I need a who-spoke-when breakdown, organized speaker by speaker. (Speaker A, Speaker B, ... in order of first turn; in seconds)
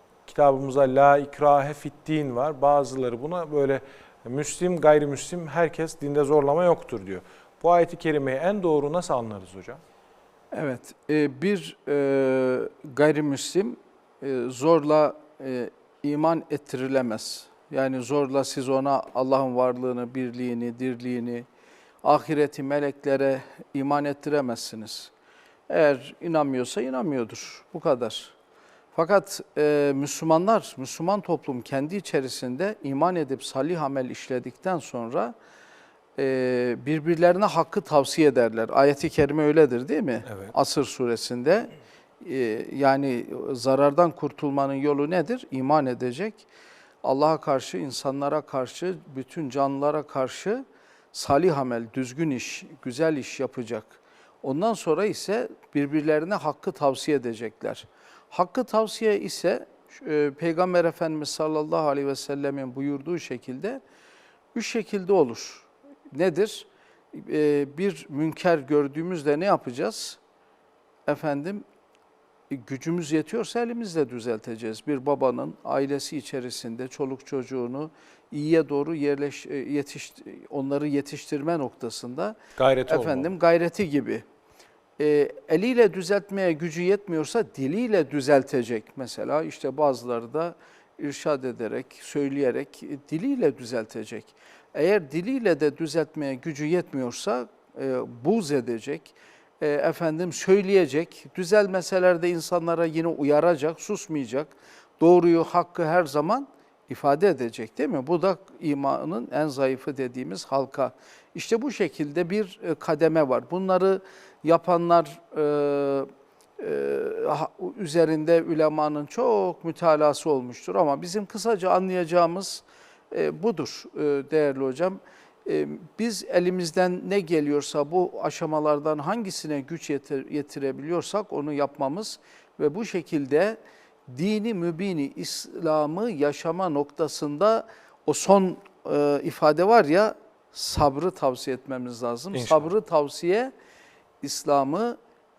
Speaker A: 0.3-9.8, 40.3-40.5, 82.6-83.3, 142.3-142.7
Speaker B: 10.5-21.5, 22.0-25.1, 25.7-28.4, 28.9-35.3, 36.2-46.5, 47.0-63.8, 64.5-70.2, 71.1-71.6, 72.5-84.2, 85.0-116.1, 116.6-143.5, 144.2-145.0